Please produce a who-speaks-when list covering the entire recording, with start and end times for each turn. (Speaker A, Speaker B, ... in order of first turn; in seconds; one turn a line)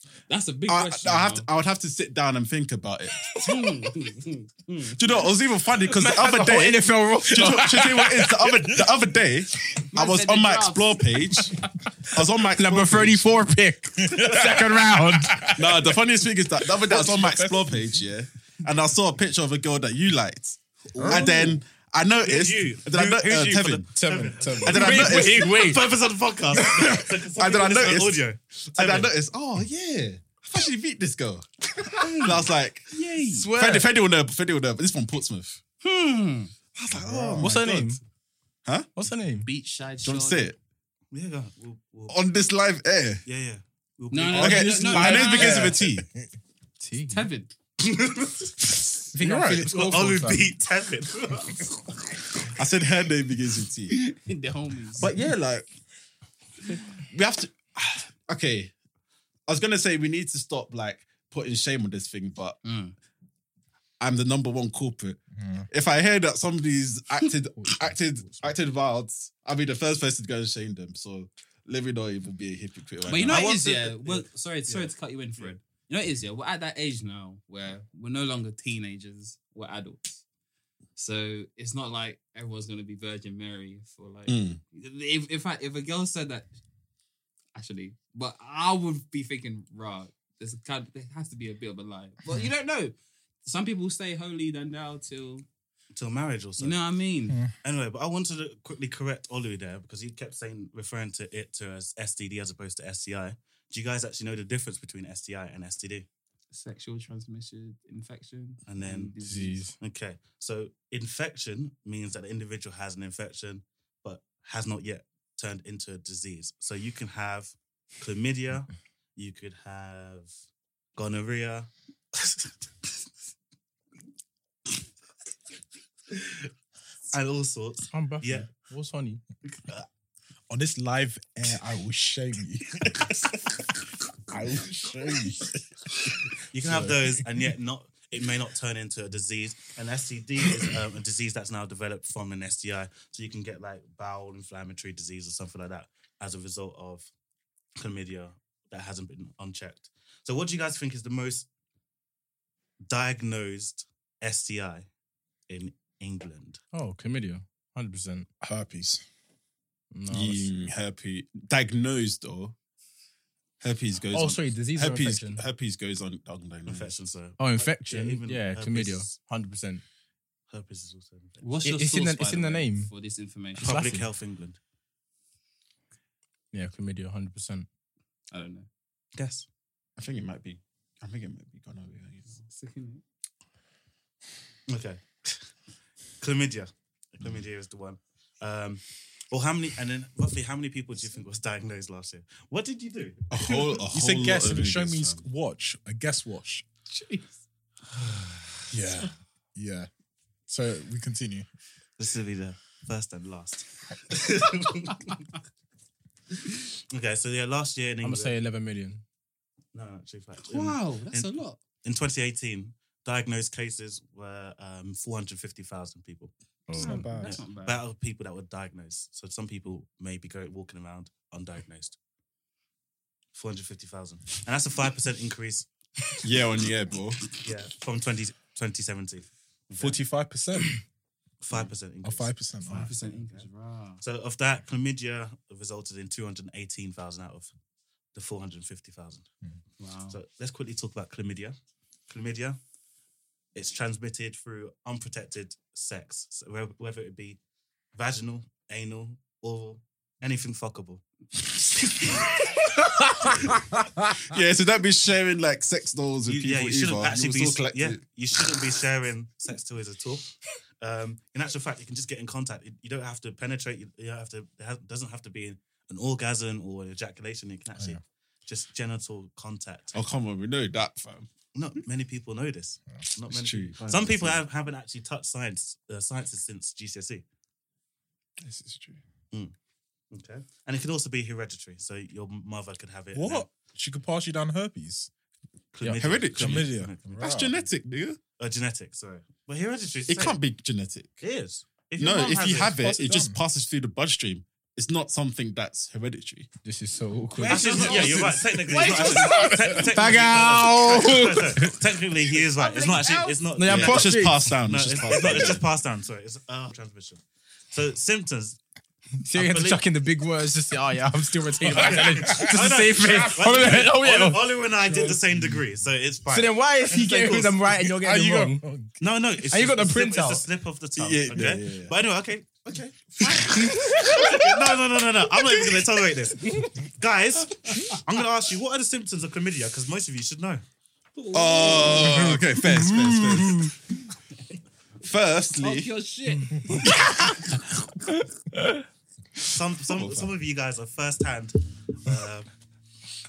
Speaker A: 0.3-1.5
Speaker B: 0.7-3.1
Speaker A: 3.4-5.3
Speaker B: 5.0-13.3
Speaker C: 5.9-8.1
Speaker D: 7.3-9.0
Speaker A: 9.9-11.5
Speaker C: 12.5-15.5
Speaker D: 14.0-16.0
Speaker B: 15.6-23.9
Speaker D: 16.6-18.1
Speaker E: 20.9-21.6
Speaker D: 21.0-21.3
Speaker E: 22.2-29.1
Speaker D: 23.9-25.2
Speaker B: 24.6-25.7
Speaker C: 24.7-25.9
Speaker D: 26.6-27.0
Speaker B: 27.4-33.0
Speaker A: 31.9-33.5
Speaker C: 33.3-33.9
Speaker B: 33.5-35.6
Speaker A: 35.8-36.5
Speaker B: 36.8-38.0
Speaker D: 36.9-37.6
Speaker C: 37.4-38.0
Speaker B: 38.6-38.9
Speaker C: 39.0-39.5
Speaker A: 39.4-40.5
Speaker B: 40.0-40.6
Speaker E: 41.1-42.2
Speaker B: 42.1-43.2
Speaker E: 43.3-45.1
Speaker A: 44.1-45.8
Speaker B: 44.3-46.1
Speaker D: 45.1-46.3
Speaker C: 46.8-47.3
Speaker A: 47.1-47.5
Speaker E: 47.8-49.0
Speaker C: 49.1-50.5
Speaker D: 49.2-49.7
Speaker E: 49.6-51.7
Speaker B: 52.5-54.0
Speaker A: 53.9-55.1
Speaker B: 55.0-55.7
Speaker B: 56.8-58.7
Speaker B: 59.5-62.6
Speaker A: 62.6-63.0
Speaker B: 64.0-73.8
Speaker D: 65.4-65.7
Speaker A: 73.0-80.2
Speaker E: 73.3-75.5
Speaker A: 81.0-86.5
Speaker B: 84.3-84.6
Speaker A: 87.5-95.5
Speaker E: 95.9-96.8
Speaker A: 96.6-97.4
Speaker D: 97.3-97.5
Speaker E: 97.6-106.1
Speaker A: 106.5-109.7
Speaker E: 108.7-109.2
Speaker C: 109.2-109.8
Speaker E: 109.8-120.3
Speaker E: 121.0-122.5
Speaker E: 126.1-126.5
Speaker E: 127.1-128.5
Speaker C: 127.9-129.2
Speaker E: 129.5-129.9
Speaker D: 130.5-133.2
Speaker D: 134.3-135.6
Speaker E: 136.5-147.1
Speaker E: 147.8-151.5
Speaker E: 152.9-154.9
Speaker E: 155.5-156.6
Speaker C: 156.7-158.3
Speaker D: 158.4-159.0
Speaker C: 159.9-160.5
Speaker B: 160.1-162.6
Speaker B: 163.6-166.9
Speaker C: 164.1-165.4
Speaker E: 166.7-169.2
Speaker C: 167.4-169.8
Speaker E: 170.5-171.5
Speaker A: 171.4-173.8
Speaker C: 171.6-172.9
Speaker C: 173.6-174.1
Speaker E: 173.6-174.6
Speaker C: 176.5-177.7
Speaker A: 178.3-178.7
Speaker E: 179.2-179.5
Speaker B: 180.0-182.4
Speaker A: 182.4-183.0
Speaker E: 184.7-185.5
Speaker E: 186.2-193.8
Speaker B: 193.3-195.2
Speaker D: 193.8-196.7
Speaker A: 196.9-197.4
Speaker E: 197.9-198.6
Speaker D: 198.7-199.9
Speaker D: 200.5-201.5
Speaker E: 202.0-205.2
Speaker E: 206.7-208.3
Speaker C: 208.0-209.0
Speaker E: 209.7-211.3
Speaker A: 210.4-211.6
Speaker E: 211.8-216.3
Speaker C: 216.7-217.2
Speaker D: 216.7-217.4
Speaker A: 216.8-217.8
Speaker E: 217.2-222.0
Speaker E: 223.3-225.7
Speaker B: 226.2-227.3
Speaker E: 227.3-230.0
Speaker D: 229.8-230.8
Speaker E: 231.4-233.5
Speaker D: 232.0-232.9
Speaker A: 232.7-234.0
Speaker E: 234.0-237.5
Speaker E: 238.1-239.3
Speaker A: 239.8-240.2
Speaker E: 240.1-241.6
Speaker E: 242.1-242.6
Speaker E: 243.6-247.4
Speaker E: 247.9-251.0
Speaker C: 253.3-253.8
Speaker B: 254.2-258.0
Speaker E: 256.2-270.0
Speaker B: 269.9-271.3
Speaker E: 271.6-277.2
Speaker B: 273.3-274.4
Speaker B: 278.4-279.0
Speaker E: 280.1-283.5
Speaker D: 283.1-285.1
Speaker E: 285.7-287.7
Speaker B: 286.0-288.2
Speaker D: 286.3-287.6
Speaker E: 288.4-290.4
Speaker B: 290.1-291.2
Speaker E: 291.2-292.8
Speaker B: 292.0-296.5
Speaker D: 292.7-293.4
Speaker C: 296.6-298.2
Speaker A: 297.4-300.3
Speaker E: 297.4-308.6
Speaker D: 297.9-298.3
Speaker D: 299.1-299.9
Speaker C: 299.7-301.8
Speaker A: 302.5-303.5
Speaker C: 303.6-304.6
Speaker B: 303.6-305.6
Speaker C: 309.2-314.6
Speaker E: 309.3-309.9
Speaker E: 311.6-317.5
Speaker D: 311.7-313.1
Speaker D: 314.9-315.6
Speaker C: 316.3-318.6
Speaker D: 316.9-319.0
Speaker E: 319.0-330.6
Speaker C: 319.5-320.5
Speaker B: 321.0-321.9
Speaker C: 323.4-324.4
Speaker A: 323.5-324.2
Speaker C: 326.5-326.7
Speaker A: 331.1-332.4
Speaker B: 331.3-333.8
Speaker C: 332.6-333.7
Speaker B: 335.0-335.9
Speaker A: 335.6-337.0
Speaker C: 336.9-337.2
Speaker C: 338.6-338.8
Speaker E: 339.5-342.5
Speaker B: 339.9-340.3